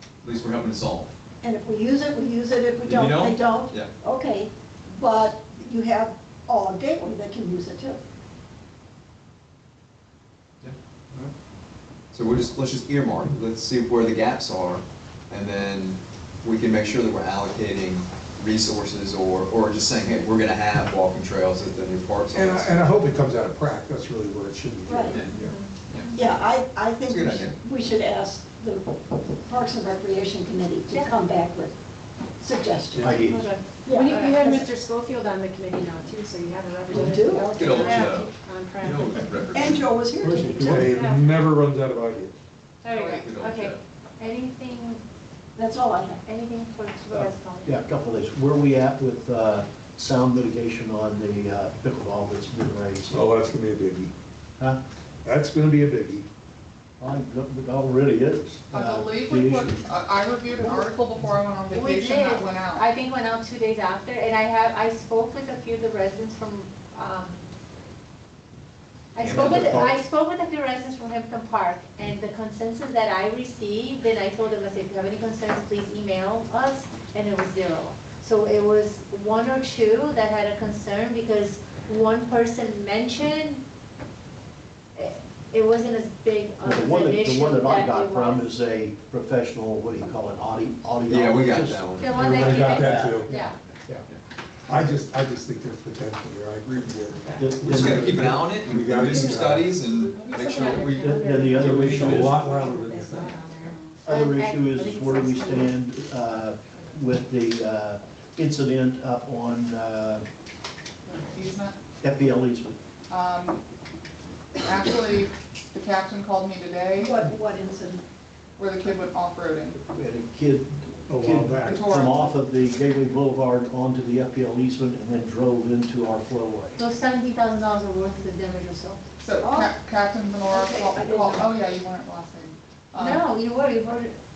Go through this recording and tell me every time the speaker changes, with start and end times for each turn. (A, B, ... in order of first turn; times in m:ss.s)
0:00.2-0:01.1 A
0:01.4-0:08.0 B
0:02.8-0:03.9 A
0:12.1-0:22.8 A
0:22.3-0:25.6 C
0:24.9-0:25.2 B
0:25.3-0:26.3 D
0:26.2-0:31.7 B
0:27.0-0:27.6 A
0:32.4-0:33.2 B
0:32.9-0:33.2 C
0:33.0-0:33.4 E
0:33.1-0:34.6 D
0:33.8-0:34.7 B
0:34.2-0:37.2 F
0:36.9-0:37.6 B
0:37.5-0:39.9 A
0:37.7-0:38.2 D
0:39.5-0:41.0 B
0:40.2-0:42.3 C
0:40.9-0:41.3 D
0:42.8-0:45.0 D
0:42.9-0:43.3 G
0:43.1-0:43.8 A
0:45.6-0:46.2 B
0:46.2-0:47.8 D
0:47.6-0:53.2 E
0:53.1-0:54.1 C
0:55.2-0:56.2 C
0:57.0-0:59.8 E
0:58.7-1:02.9 G
1:01.7-1:07.4 D
1:09.1-1:23.6 D
1:09.2-1:09.8 A
1:09.3-1:10.0 E
1:25.0-1:28.5 D
1:26.6-1:33.5 E
1:31.1-1:32.7 A
1:32.0-1:33.5 D
1:32.1-1:33.3 C
1:34.7-1:39.8 C
1:37.2-1:42.3 A
1:37.4-1:38.4 E
1:39.9-1:41.0 G
1:40.5-1:41.8 D
1:40.9-1:42.4 E
1:41.5-1:43.4 C
1:42.4-1:45.7 D
1:43.5-1:44.0 G
1:44.0-1:50.2 E
1:51.1-1:51.8 G
1:52.0-1:52.8 E
1:53.1-1:53.6 G
1:54.5-1:57.2 G
1:57.0-1:58.0 B
1:58.6-1:59.8 G
1:59.8-2:06.8 E
2:01.1-2:01.8 C
2:01.6-2:02.3 G
2:06.8-2:09.0 D
2:09.2-2:13.3 G
2:09.4-2:09.7 B
2:10.5-2:11.5 B
2:13.0-2:14.2 D